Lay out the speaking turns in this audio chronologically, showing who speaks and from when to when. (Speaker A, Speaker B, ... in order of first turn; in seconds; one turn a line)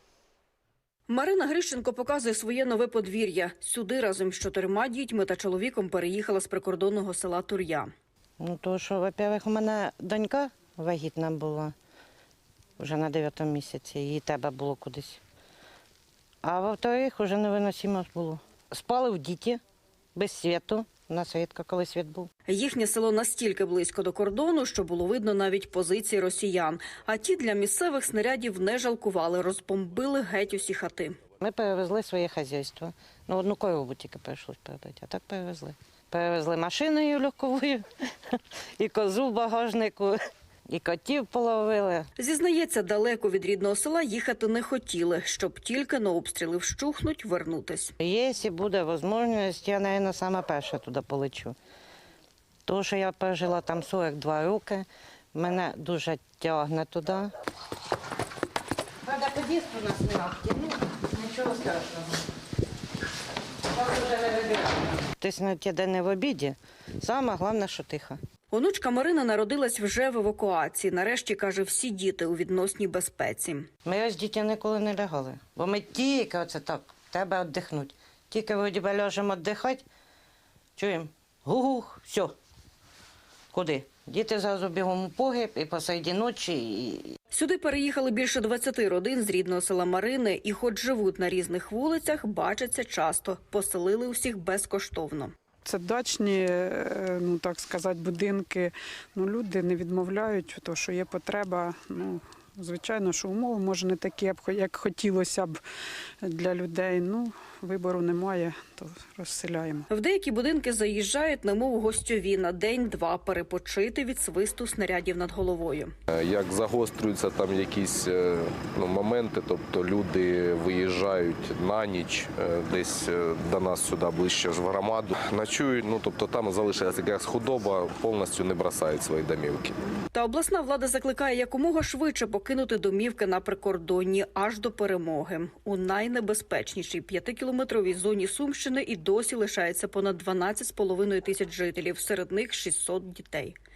Speaker A: 1.1-7.9
Speaker B: 8.4-11.7
Speaker B: 12.8-15.2
Speaker B: 16.4-19.6
Speaker B: 20.1-22.3
Speaker A: 22.5-31.2
Speaker B: 31.4-40.2
Speaker B: 40.7-42.1
Speaker A: 42.2-47.9
Speaker B: 48.0-51.6
Speaker B: 52.7-57.3
Speaker B: 59.0-62.3
Speaker B: 63.7-68.2
Speaker A: 68.5-73.7
Speaker B: 73.8-79.8
Speaker B: 80.8-82.3
Speaker B: 83.5-87.2
Speaker A: 87.3-95.3
Speaker C: 95.7-105.6
Speaker C: 106.2-109.9
Speaker A: 109.9-115.9
Speaker D: 116.1-129.8
Speaker A: 130.1-143.6